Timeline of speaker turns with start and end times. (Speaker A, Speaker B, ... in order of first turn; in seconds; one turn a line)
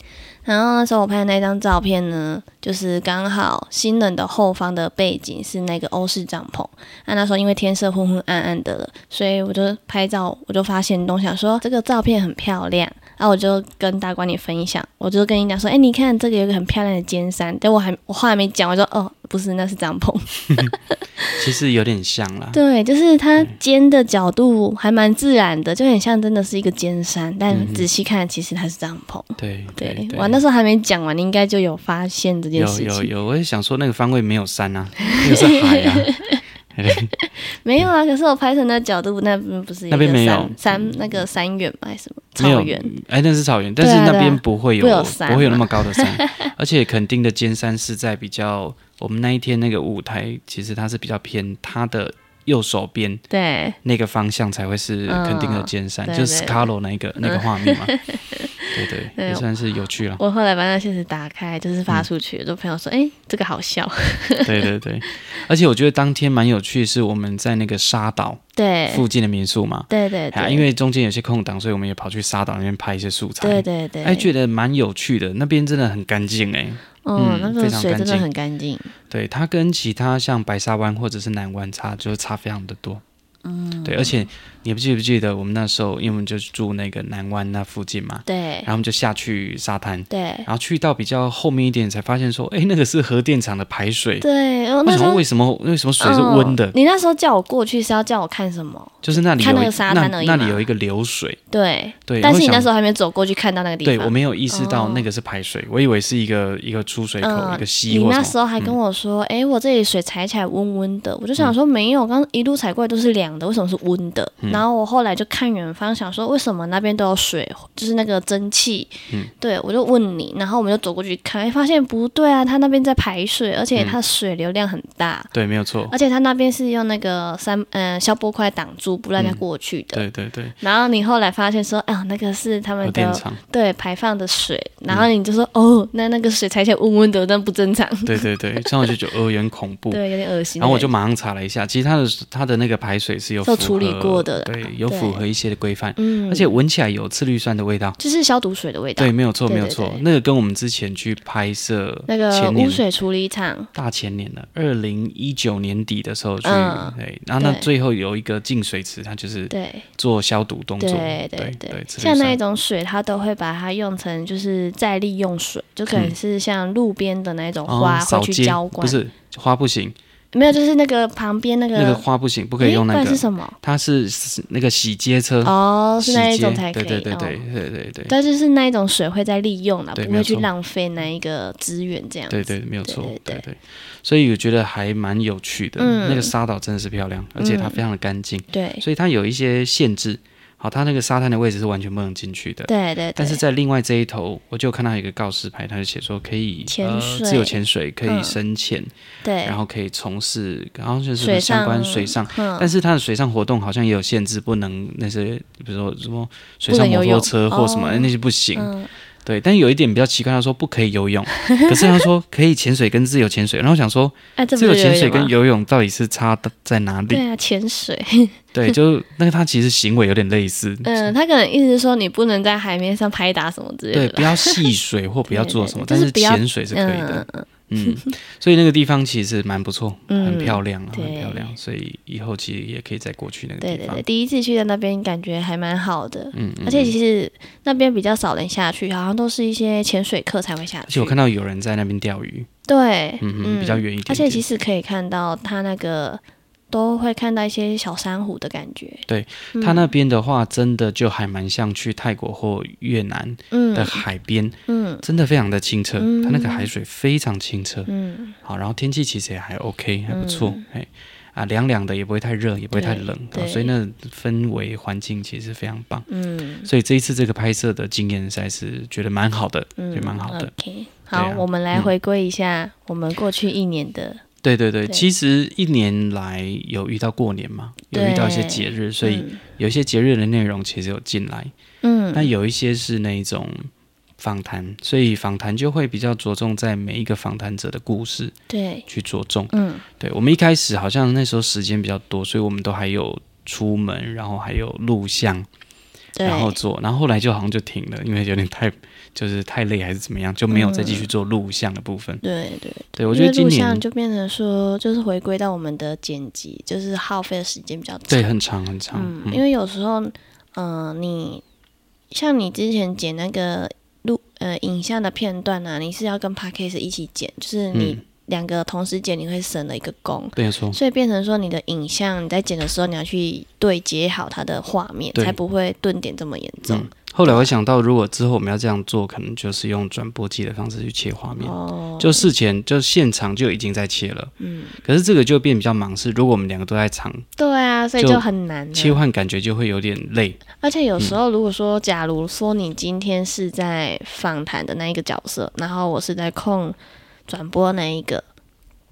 Speaker A: 0.4-21.4
Speaker B: 21.4-22.6
Speaker A: 22.5-33.1
Speaker B: 27.5-27.9
Speaker B: 29.4-30.4
Speaker B: 32.5-36.1
Speaker A: 35.1-42.9
Speaker B: 36.7-37.1
Speaker B: 39.9-41.0
Speaker B: 42.4-53.2
Speaker A: 43.8-46.5
Speaker A: 53.3-53.8
Speaker B: 53.8-57.9
Speaker A: 55.1-56.7
Speaker A: 57.2-59.5
Speaker B: 58.7-60.2
Speaker A: 60.2-65.2
Speaker B: 64.4-78.2
Speaker A: 68.5-69.0
Speaker A: 69.9-70.7
Speaker A: 73.4-74.3
Speaker A: 77.0-78.9
Speaker B: 79.1-83.0
Speaker A: 83.4-84.3
Speaker B: 83.8-94.2
Speaker A: 88.2-88.7
Speaker A: 90.1-90.5
Speaker A: 94.2-95.2
Speaker B: 94.8-96.7
Speaker A: 96.0-100.6
Speaker B: 99.0-101.4
Speaker A: 101.5-105.1
Speaker B: 102.1-102.7
Speaker B: 103.8-108.8
Speaker A: 107.2-125.3
Speaker B: 125.3-125.9
Speaker A: 125.9-130.0
Speaker B: 129.2-129.4
Speaker B: 129.9-130.6
Speaker A: 130.6-139.0
Speaker B: 132.8-133.4
Speaker B: 138.0-140.0
Speaker A: 139.9-140.9
Speaker B: 140.6-148.0
Speaker A: 143.4-145.2
Speaker A: 146.0-146.6
Speaker A: 148.0-150.0
Speaker B: 149.0-152.8
Speaker A: 152.1-153.7
Speaker B: 153.7-162.4
Speaker A: 156.4-157.7
Speaker A: 159.5-159.9
Speaker A: 160.8-169.0
Speaker B: 167.7-169.9
Speaker A: 170.3-172.0
Speaker B: 171.7-178.1
Speaker A: 172.6-173.6
Speaker A: 175.4-177.4
Speaker A: 178.1-183.4
Speaker B: 179.9-180.5
Speaker B: 182.3-198.9
Speaker A: 185.8-186.3
Speaker A: 187.4-187.8
Speaker A: 188.5-188.8
Speaker A: 192.7-193.4
Speaker A: 196.7-198.4
Speaker A: 199.2-199.6
Speaker B: 199.4-208.7
Speaker A: 201.2-202.7
Speaker A: 206.7-208.9
Speaker B: 209.2-217.2
Speaker A: 211.3-212.1
Speaker A: 214.4-215.3
Speaker A: 217.1-218.8
Speaker B: 218.5-221.1
Speaker A: 220.8-224.7
Speaker B: 223.9-234.0
Speaker A: 225.3-228.1
Speaker A: 230.1-231.5
Speaker A: 233.6-241.2
Speaker B: 236.3-236.9
Speaker B: 240.9-242.5
Speaker A: 242.7-249.9
Speaker B: 243.2-244.4
Speaker B: 249.1-257.9
Speaker A: 253.5-254.0
Speaker A: 254.7-255.0
Speaker A: 256.0-256.7
Speaker A: 257.9-258.3
Speaker B: 258.4-266.1
Speaker A: 260.1-260.6
Speaker A: 262.7-263.7
Speaker A: 266.1-266.7
Speaker B: 266.6-270.5
Speaker A: 269.8-274.2
Speaker B: 271.1-271.9
Speaker B: 274.4-281.5
Speaker A: 277.9-279.4
Speaker A: 281.8-282.3
Speaker B: 282.1-288.3
Speaker A: 288.5-288.9
Speaker B: 288.9-295.5
Speaker A: 289.5-289.8
Speaker A: 296.1-296.6
Speaker B: 296.2-302.2
Speaker A: 300.5-301.1
Speaker A: 302.2-308.3
Speaker B: 302.9-303.8
Speaker B: 308.1-309.4
Speaker A: 308.9-311.4
Speaker A: 312.1-327.5
Speaker B: 317.7-318.0
Speaker B: 320.4-320.8
Speaker B: 326.6-337.2
Speaker A: 331.4-332.3
Speaker A: 334.4-334.8
Speaker A: 337.4-339.0
Speaker B: 338.0-340.4
Speaker A: 340.6-346.8
Speaker A: 347.3-348.2